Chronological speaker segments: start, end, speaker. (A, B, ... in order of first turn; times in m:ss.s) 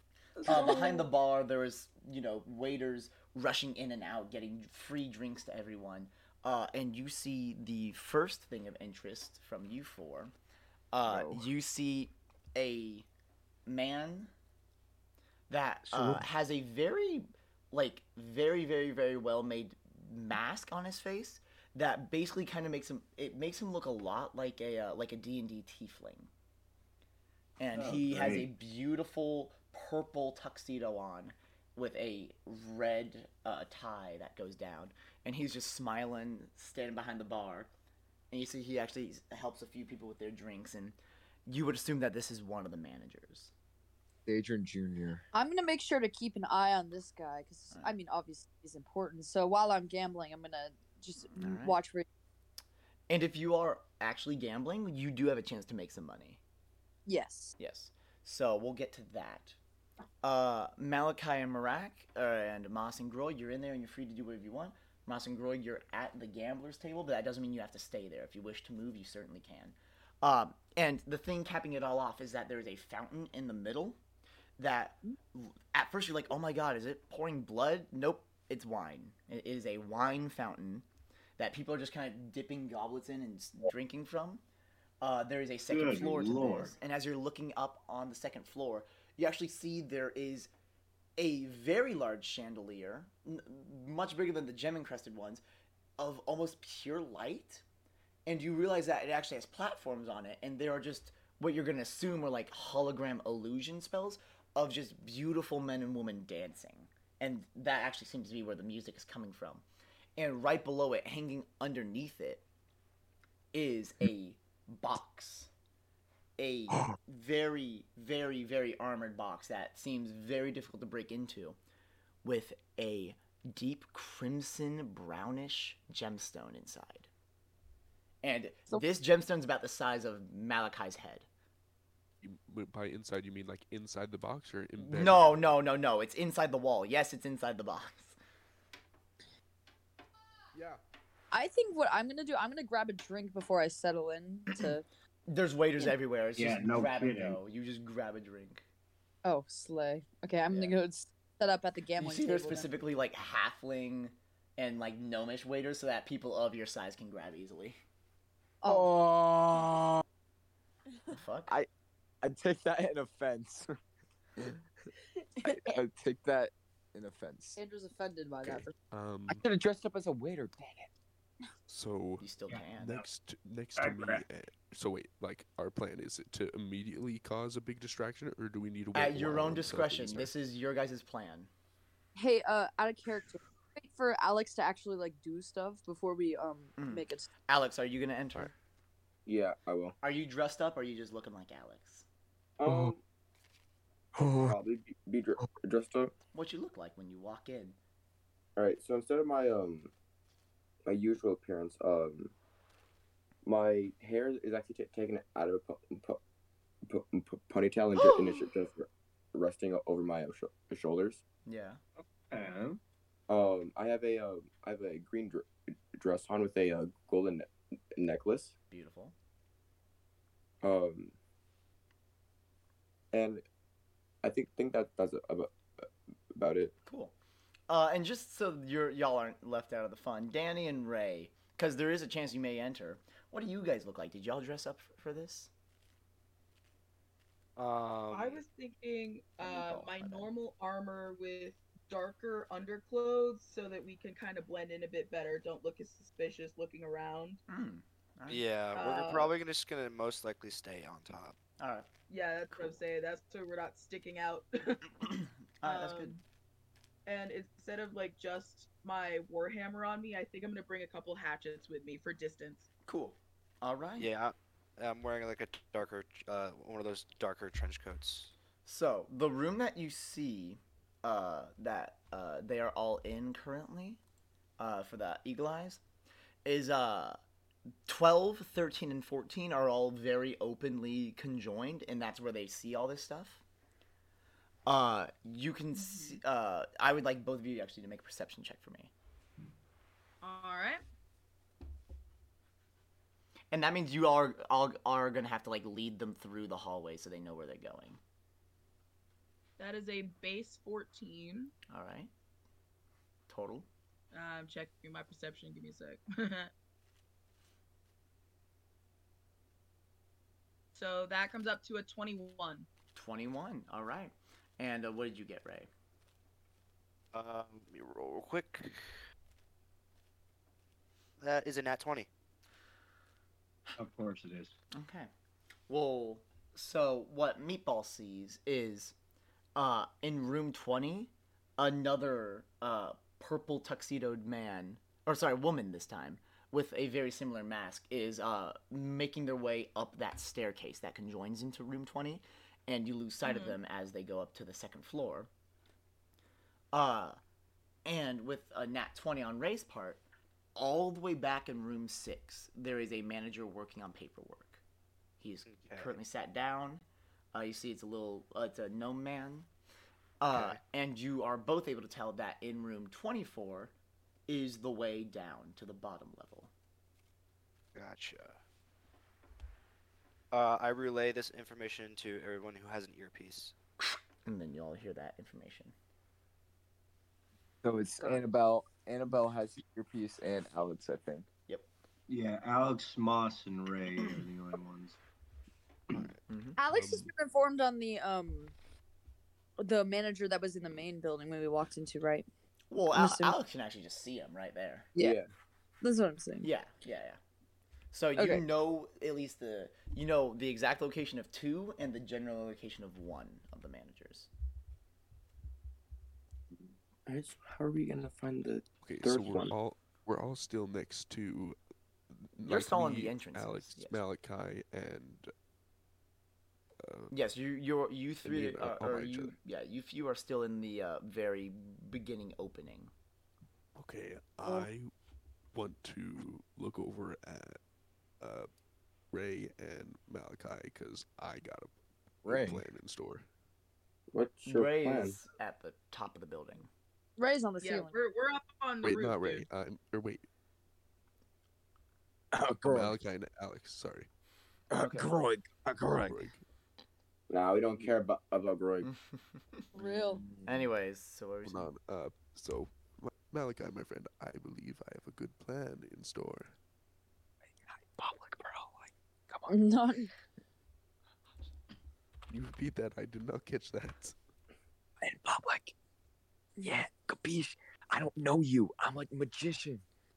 0:00.4-0:10.3 A
0:00.5-0:00.8 B
0:10.9-0:13.0 A
0:11.0-0:11.4 C
0:13.7-0:14.3 A
0:15.5-0:26.3 A
0:15.9-0:16.2 C
0:27.6-0:37.7 A
0:27.7-0:28.5 B
0:38.3-0:43.5 A
0:44.2-0:45.2 C
0:45.3-0:52.0 D
0:51.3-0:51.8 A
0:53.1-0:56.4 A
0:57.1-0:57.6 D
0:57.6-0:59.6 A
1:00.2-1:14.0 A
1:14.6-1:20.8 A
1:21.4-1:24.4 A
1:25.0-1:30.5 A
1:25.7-1:26.7 B
1:31.2-1:35.4 A
1:36.0-1:37.6 A
1:38.2-1:49.6 A
1:50.2-1:52.4 A
1:53.5-1:55.5 A
1:56.4-2:01.6 A
2:02.2-2:07.1 A
2:08.2-2:11.2 A
2:12.2-2:15.4 E
2:14.8-2:18.2 A
2:20.5-2:20.8 E
2:21.3-2:24.8 D
2:25.3-2:28.6 A
2:26.3-2:27.4 B
2:29.2-2:32.7 D
2:32.0-2:37.8 A
2:38.6-2:38.9 D
2:38.6-2:40.0 C
2:41.1-2:41.6 A
2:42.2-2:43.7 C
2:45.4-2:45.7 D
2:45.4-2:47.6 C
2:47.6-2:48.7 D
2:48.5-2:49.4 E
2:49.3-2:50.9 C
2:51.7-3:00.3 E
2:52.2-2:53.0 A
2:53.8-2:54.2 B
2:58.9-3:01.5 A
3:02.2-3:07.3 D
3:06.8-3:08.5 A
3:09.2-3:10.0 F
3:10.0-3:12.0 A
3:12.6-3:13.0 F
3:12.6-3:12.9 C
3:14.2-3:14.6 C
3:14.4-3:16.1 F
3:16.3-3:17.8 A
3:18.6-3:19.9 F
3:20.9-3:22.3 F
3:23.4-3:26.2 F
3:26.9-3:31.2 F
3:28.0-3:28.4 A
3:31.4-3:31.8 A
3:32.0-3:32.8 B
3:33.3-3:38.5 F
3:38.7-3:39.1 A
3:40.6-3:41.1 F
3:43.1-3:43.4 F
3:44.2-3:46.8 F
3:46.8-3:47.2 A
3:47.7-3:55.5 A
3:57.6-3:58.4 G
3:58.1-4:07.4 H
3:59.4-4:00.3 A
4:07.5-4:08.4 A
4:08.3-4:11.4 G
4:08.7-4:09.3 H
4:11.6-4:11.9 A
4:12.1-4:14.9 H
4:12.5-4:12.8 A
4:15.1-4:16.1 A
4:15.6-4:16.2 H
4:17.0-4:22.7 H
4:22.8-4:24.1 A
4:24.0-4:28.3 G
4:28.6-4:34.0 A
4:34.6-4:35.8 A
4:36.4-4:37.2 A
4:37.9-4:43.4 A
4:44.7-4:48.9 A
4:45.8-4:46.2 H
4:50.2-4:50.8 H
4:53.5-4:58.0 A
4:59.6-5:01.5 H
5:01.7-5:02.1 A
5:03.3-5:03.7 A
5:04.1-5:06.5 H
5:10.7-5:12.7 H
5:12.9-5:15.7 A
5:17.1-5:19.0 G
5:21.2-5:22.1 G
5:23.8-5:24.6 B
5:24.7-5:25.1 A
5:25.7-5:28.9 A
5:29.6-5:45.3 A
5:43.2-5:43.6 H
5:46.7-5:47.2 A
5:47.8-5:50.0 A
5:50.5-5:54.6 A
5:55.2-5:59.5 A
5:55.4-5:56.0 G
6:00.2-6:03.7 A
6:00.3-6:00.6 G
6:04.3-6:06.5 A
6:07.7-6:08.4 G
6:10.3-6:13.5 G
6:14.2-6:15.7 A
6:17.6-6:21.2 C
6:22.1-6:25.0 B
6:26.3-6:26.6 A
6:26.6-6:28.5 D
6:26.7-6:27.1 E
6:29.6-6:32.2 D
6:32.7-6:34.9 A
6:32.9-6:33.4 D
6:35.0-6:35.3 F
6:35.8-6:36.5 D
6:36.4-6:37.2 A
6:37.9-6:44.3 A
6:38.2-6:38.4 D
6:47.0-6:49.6 F
6:48.8-6:51.6 E
6:52.3-6:55.3 E
6:52.4-6:54.0 A
6:56.8-6:57.1 E
6:57.1-7:02.9 A
6:58.2-6:59.3 E
7:03.7-7:04.9 E
7:05.5-7:07.6 E
7:08.2-7:08.5 E
7:09.1-7:11.7 E
7:12.2-7:12.6 C
7:12.2-7:13.2 E
7:14.1-7:15.2 F
7:14.4-7:16.7 A
7:17.2-7:17.9 D
7:17.6-7:19.4 H
7:18.8-7:20.2 E
7:22.3-7:23.0 C
7:22.6-7:24.1 E
7:24.7-7:26.3 C
7:26.0-7:26.4 E
7:27.3-7:28.9 F
7:28.8-7:29.6 A
7:29.7-7:30.2 D
7:30.4-7:31.7 A
7:31.4-7:36.5 E
7:37.4-7:39.6 C
7:39.5-7:40.1 D
7:42.3-7:44.2 E
7:45.0-7:45.7 C
7:46.6-7:49.8 C